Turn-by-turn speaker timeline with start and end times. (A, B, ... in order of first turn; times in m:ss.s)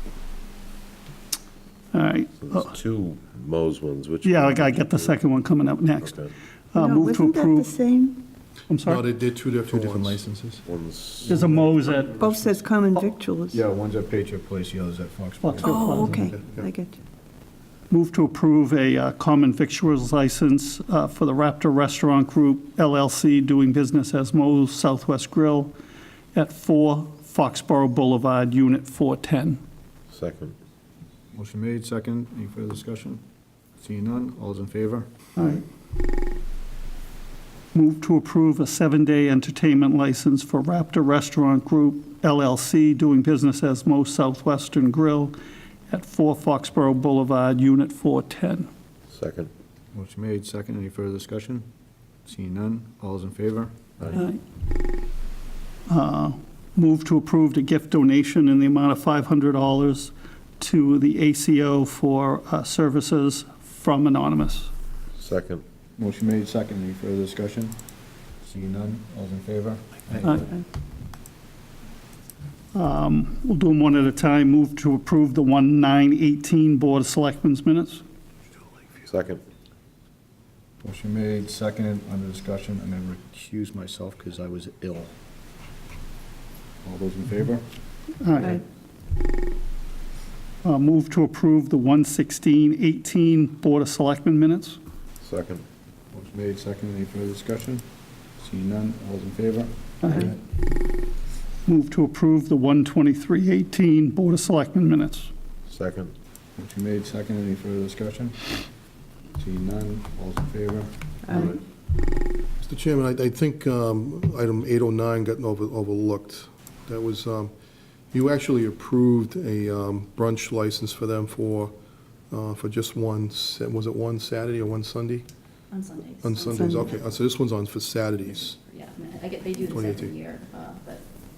0:01.9-0:02.7 A
0:02.4-0:05.2 B
0:04.2-0:07.7 A
0:06.0-0:06.3 B
0:06.8-0:08.1 C
0:08.7-0:09.0 A
0:08.8-0:10.6 D
0:09.7-0:10.6 E
0:10.6-0:11.6 B
0:11.2-0:11.6 E
0:11.3-0:12.2 A
0:12.2-0:13.5 C
0:13.5-0:16.4 E
0:15.4-0:16.2 A
0:15.7-0:16.9 C
0:17.9-0:25.7 A
0:26.3-0:29.6 A
0:30.1-0:30.6 B
0:31.3-0:33.2 E
0:33.8-0:35.1 E
0:35.4-0:35.6 A
0:37.7-0:45.3 A
0:45.9-0:48.7 A
0:49.1-0:49.5 B
0:49.9-0:51.7 E
0:52.2-0:54.1 E
0:55.9-1:04.7 A
1:05.2-1:05.6 B
1:06.0-1:07.8 E
1:08.4-1:10.5 E
1:12.7-1:18.0 A
1:19.0-1:19.4 B
1:20.8-1:25.1 E
1:26.8-1:27.6 E
1:28.2-1:28.6 A
1:30.6-1:34.8 A
1:35.2-1:35.6 B
1:36.1-1:37.8 E
1:38.4-1:40.4 E
1:40.0-1:40.3 A
1:41.6-1:45.3 A
1:45.7-1:46.1 B
1:46.6-1:48.4 E
1:49.4-1:51.6 E
1:52.6-1:57.5 D
1:58.1-2:01.7 D
2:02.3-2:05.3 D
2:05.7-2:07.0 F
2:06.2-2:08.6 D
2:08.7-2:11.0 F
2:09.7-2:10.2 D